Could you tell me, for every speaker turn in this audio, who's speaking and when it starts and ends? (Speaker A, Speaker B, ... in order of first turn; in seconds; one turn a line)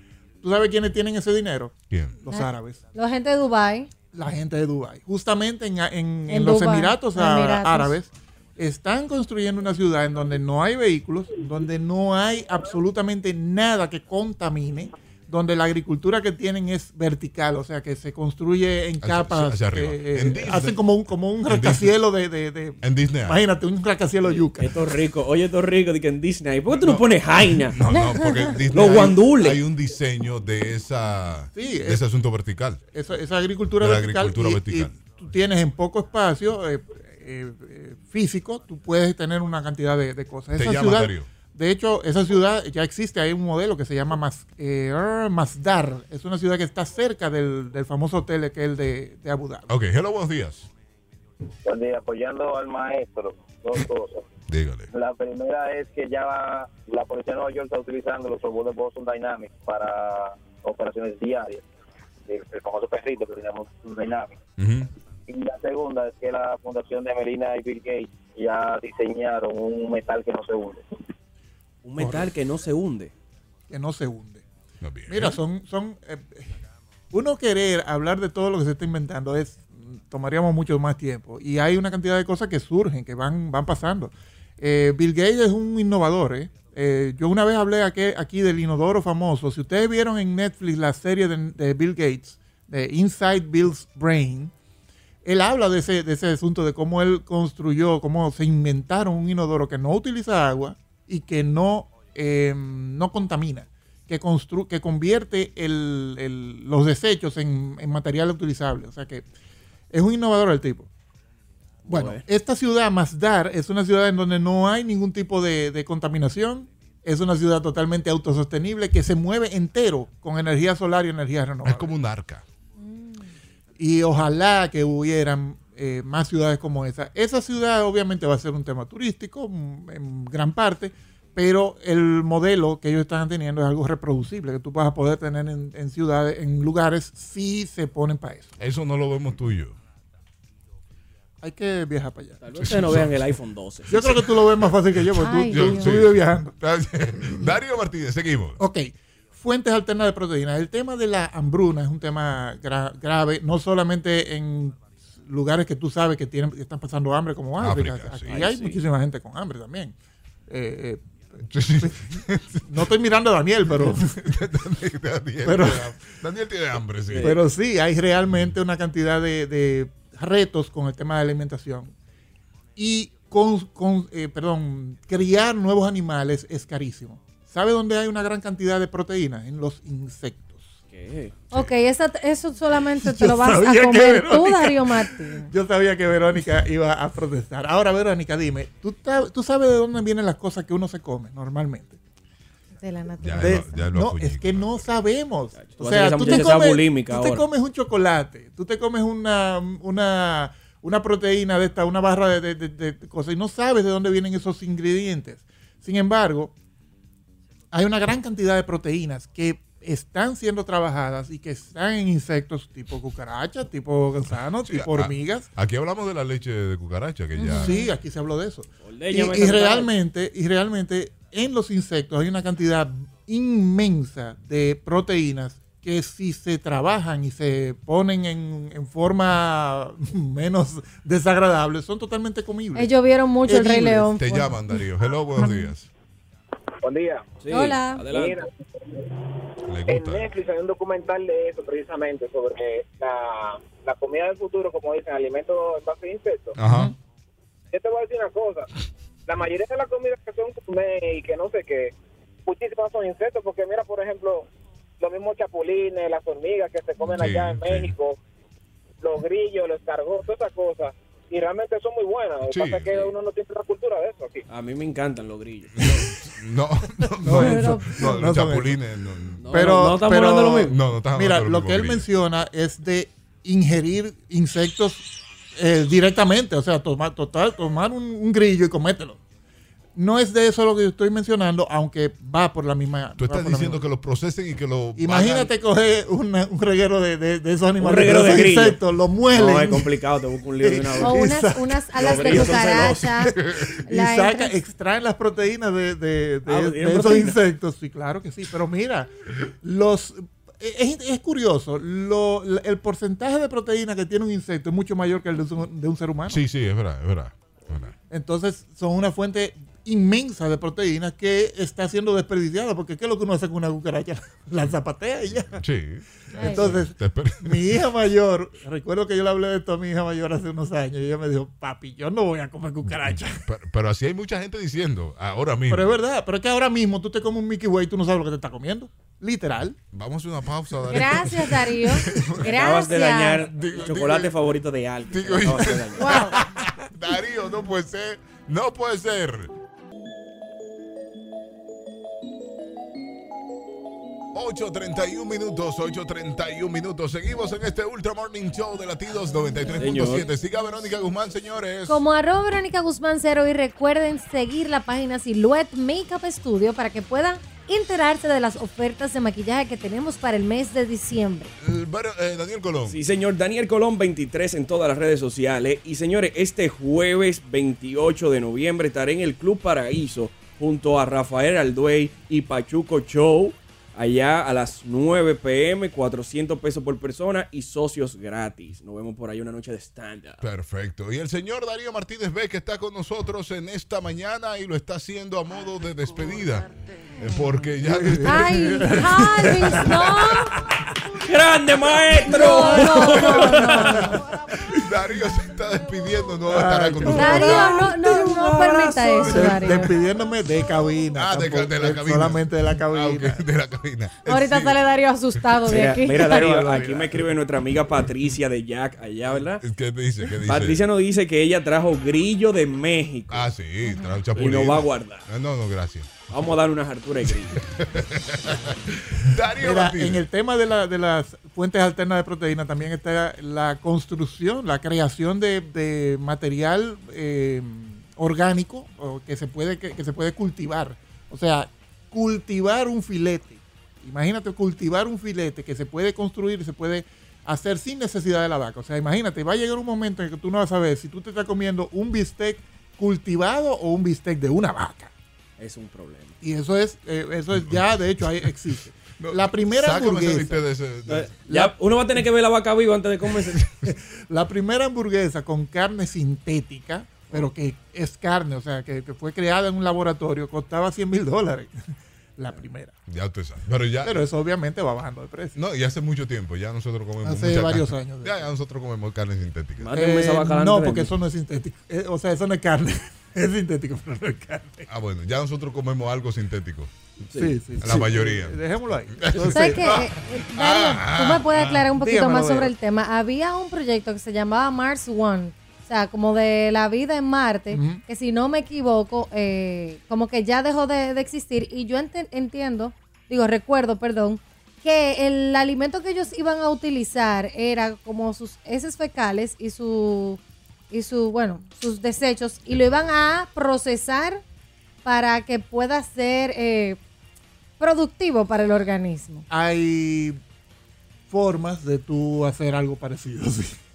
Speaker A: 0.4-2.8
Speaker B: 1.9-2.2
Speaker C: 2.3-3.9
Speaker A: 4.1-24.7
Speaker C: 6.3-8.0
Speaker B: 19.0-20.8
Speaker B: 21.5-22.0
Speaker B: 22.8-23.4
Speaker D: 24.3-27.8
Speaker B: 26.7-32.8
Speaker C: 27.9-28.6
Speaker D: 28.7-29.6
Speaker A: 31.6-32.0
Speaker A: 32.9-49.7
Speaker B: 33.8-35.0
Speaker B: 40.5-41.3
Speaker B: 49.7-50.7
Speaker E: 51.6-54.3
Speaker B: 54.5-54.9
Speaker E: 54.9-61.6
Speaker E: 62.3-64.4
Speaker B: 64.6-64.9
Speaker E: 65.3-70.8
Speaker D: 71.8-73.1
Speaker A: 72.0-72.3
Speaker A: 73.7-74.4
Speaker B: 74.8-75.4
Speaker A: 75.1-76.5
Speaker A: 77.1-94.5
Speaker A: 95.2-109.3
Speaker A: 109.9-110.9
Speaker D: 111.9-112.2
Speaker A: 111.9-121.9
Speaker B: 121.6-122.4
Speaker C: 122.8-123.3
Speaker A: 123.8-138.6
Speaker B: 138.6-139.8
Speaker A: 141.4-142.4
Speaker D: 142.4-144.3
Speaker B: 142.6-143.2
Speaker A: 143.9-146.6
Speaker C: 145.2-146.0
Speaker B: 145.5-148.6
Speaker A: 148.6-159.9
Speaker B: 157.6-158.4
Speaker D: 158.3-158.8
Speaker A: 160.5-161.0
Speaker B: 161.5-162.9
Speaker A: 161.8-164.2
Speaker B: 163.9-167.4
Speaker A: 165.4-166.0
Speaker D: 167.1-167.4
Speaker A: 167.2-171.9
Speaker A: 172.8-180.8
Speaker D: 180.9-181.3
Speaker C: 181.5-185.5
Speaker A: 183.0-192.0
Speaker C: 192.8-193.9
Speaker B: 193.2-194.9
Speaker A: 193.4-206.5
Speaker D: 195.6-197.5
Speaker A: 207.7-215.5
Speaker B: 214.6-217.8
Speaker C: 217.4-217.9
Speaker A: 217.6-232.9
Speaker D: 218.8-219.9
Speaker C: 232.8-234.8
Speaker A: 233.4-234.1
Speaker B: 234.2-235.9
Speaker C: 235.4-235.7
Speaker F: 236.8-237.2
Speaker D: 237.4-238.4
Speaker C: 237.5-238.0
Speaker F: 238.1-239.1
Speaker B: 239.7-240.3
Speaker F: 239.9-246.6
Speaker B: 246.6-246.9
Speaker A: 246.7-246.9
Speaker F: 247.7-248.7
Speaker F: 249.3-251.9
Speaker F: 252.5-254.5
Speaker F: 255.0-258.2
Speaker B: 257.0-257.9
Speaker F: 259.0-264.5
Speaker B: 262.4-262.9
Speaker D: 264.5-265.9
Speaker B: 265.8-269.9
Speaker A: 267.2-268.8
Speaker C: 267.3-268.1
Speaker D: 269.4-270.8
Speaker A: 269.5-279.2
Speaker B: 270.6-272.1
Speaker A: 280.0-283.8
Speaker B: 283.2-285.5
Speaker A: 285.0-290.0
Speaker D: 287.8-288.8
Speaker D: 289.3-291.4
Speaker A: 290.6-292.6
Speaker C: 291.0-293.3
Speaker D: 291.9-293.1
Speaker B: 293.4-293.7
Speaker A: 293.9-299.1
Speaker C: 293.9-294.5
Speaker D: 296.5-297.4
Speaker A: 299.6-306.4
Speaker B: 306.3-307.9
Speaker A: 308.1-315.6
Speaker B: 315.6-317.8
Speaker A: 316.4-323.4
Speaker C: 316.4-316.7
Speaker B: 322.9-325.9
Speaker A: 325.7-329.8
Speaker B: 329.9-332.5
Speaker C: 330.9-333.4
Speaker D: 332.4-336.3
Speaker B: 333.5-334.3
Speaker B: 335.1-339.5
Speaker C: 336.0-336.4
Speaker B: 344.3-352.0
Speaker D: 349.8-350.2
Speaker C: 351.9-361.5
Speaker B: 361.6-363.0
Speaker D: 362.9-380.4
Speaker B: 380.4-389.2
Speaker A: 387.8-389.9
Speaker C: 388.2-390.5
Speaker D: 391.2-394.1
Speaker C: 392.2-394.2
Speaker B: 394.8-397.8
Speaker A: 396.5-403.4
Speaker C: 397.1-399.9
Speaker B: 401.1-404.8
Speaker C: 404.3-406.9
Speaker D: 405.7-409.6
Speaker B: 409.6-410.8
Speaker D: 410.4-413.5
Speaker B: 413.3-416.3
Speaker C: 413.9-414.2
Speaker D: 414.4-415.2
Speaker D: 416.3-417.6
Speaker B: 417.5-420.3
Speaker A: 419.5-445.1
Speaker D: 445.6-446.4
Speaker A: 446.4-450.6
Speaker B: 447.5-448.5
Speaker B: 449.2-451.3
Speaker D: 451.1-453.7
Speaker A: 451.5-451.7
Speaker A: 454.2-463.0
Speaker B: 463.1-464.2
Speaker A: 464.0-465.6
Speaker B: 465.6-469.9
Speaker A: 467.2-468.5
Speaker D: 469.8-471.1
Speaker A: 469.9-474.9
Speaker B: 474.9-476.9
Speaker D: 477.3-478.1
Speaker A: 477.4-480.0
Speaker B: 477.8-481.9
Speaker C: 479.5-500.4
Speaker A: 481.9-482.7
Speaker A: 487.7-488.0
Speaker C: 500.9-504.4
Speaker C: 505.1-507.0
Speaker C: 507.8-509.4
Speaker A: 509.5-510.4
Speaker A: 511.3-513.8